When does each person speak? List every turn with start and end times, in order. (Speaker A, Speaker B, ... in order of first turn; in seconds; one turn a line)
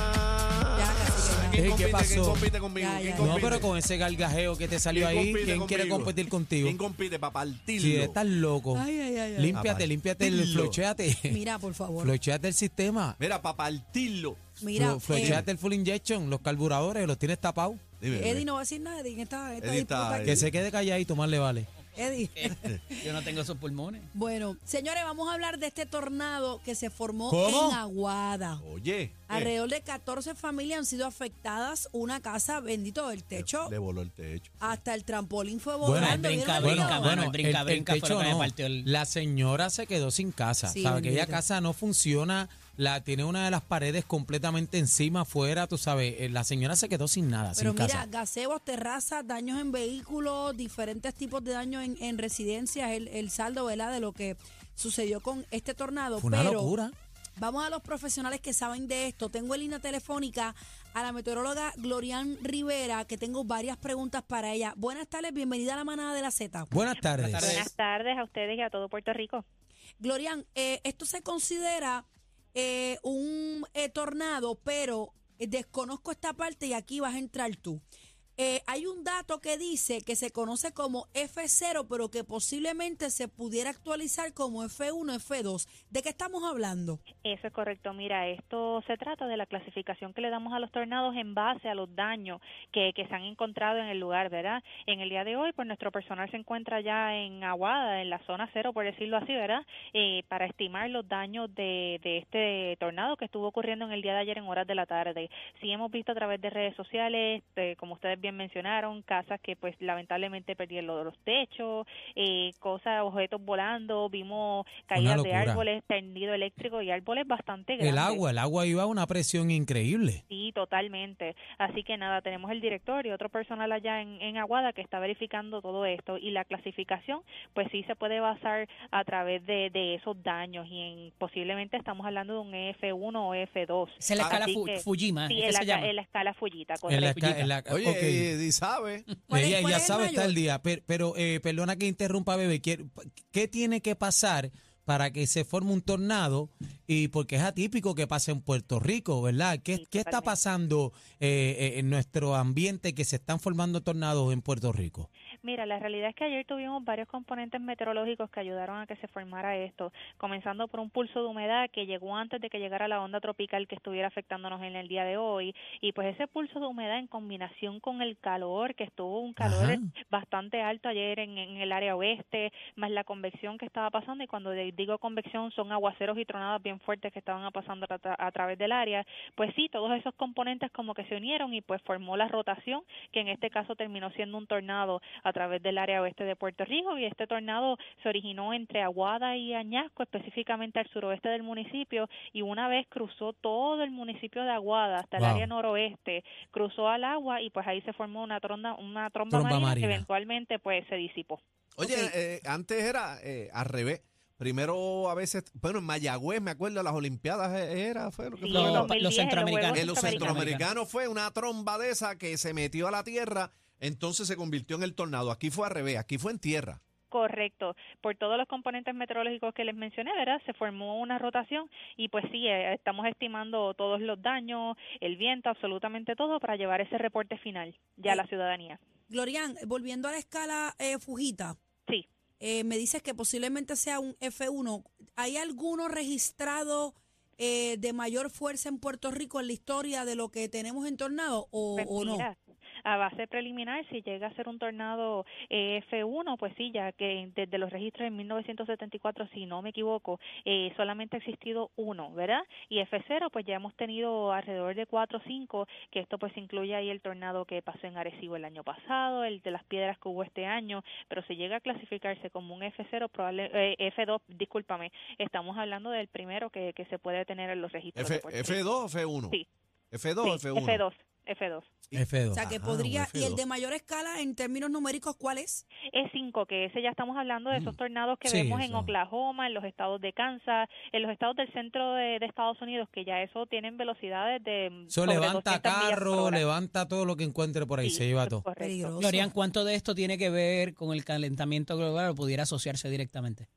Speaker A: 0.5-3.7
Speaker B: 0.7-1.6
Speaker C: 1.5-2.4
Speaker B: 2.8-3.6
Speaker C: 3.2-6.8
Speaker A: 4.9-8.2
Speaker C: 7.8-8.8
Speaker B: 8.7-9.6
Speaker C: 9.4-11.4
Speaker A: 9.5-10.8
Speaker B: 11.3-12.1
Speaker C: 12.0-13.2
Speaker A: 13.2-14.6
Speaker B: 14.6-15.4
Speaker C: 14.8-17.8
Speaker A: 15.1-15.4
Speaker A: 18.0-18.4
Speaker B: 18.1-20.4
Speaker A: 19.6-20.5
Speaker C: 20.2-21.7
Speaker B: 21.9-23.2
Speaker D: 22.9-24.1
Speaker B: 24.1-28.6
Speaker C: 27.3-27.8
Speaker A: 28.6-29.5
Speaker B: 29.3-33.7
Speaker A: 33.3-34.8
Speaker B: 34.6-37.1
Speaker C: 35.8-48.0
Speaker D: 35.9-38.9
Speaker B: 40.6-41.4
Speaker B: 47.5-56.8
Speaker C: 56.2-56.9
Speaker B: 57.4-66.7
Speaker C: 66.7-67.6
Speaker D: 67.1-67.7
Speaker E: 67.4-69.4
Speaker B: 70.0-77.8
Speaker B: 78.4-87.0
Speaker E: 87.2-118.2
Speaker C: 114.9-115.6
Speaker C: 117.8-120.2
Speaker E: 120.3-137.4
Speaker D: 134.0-135.9
Speaker C: 136.9-138.3
Speaker D: 136.9-137.6
Speaker A: 137.7-139.1
Speaker C: 139.3-155.1
Speaker B: 139.3-140.4
Speaker E: 149.8-150.3
Speaker E: 155.4-202.1
Speaker C: 169.4-169.8
Speaker C: 195.2-195.5
Speaker C: 199.3-200.1
Speaker A: 201.8-208.9
Speaker E: 208.4-210.5
Speaker D: 208.5-210.6
Speaker A: 209.7-216.8
Speaker E: 217.1-228.8
Speaker B: 229.1-231.6
Speaker B: 232.4-242.3
Speaker E: 241.8-268.6
Speaker A: 268.0-269.4
Speaker A: 269.9-270.8
Speaker E: 270.2-271.7
Speaker A: 271.9-273.2
Speaker C: 271.9-272.4
Speaker B: 272.3-275.6
Speaker C: 273.0-273.4
Speaker E: 275.9-286.4
Speaker C: 277.5-278.9
Speaker C: 284.9-288.4
Speaker E: 287.8-289.0
Speaker B: 288.6-289.3
Speaker D: 289.0-293.5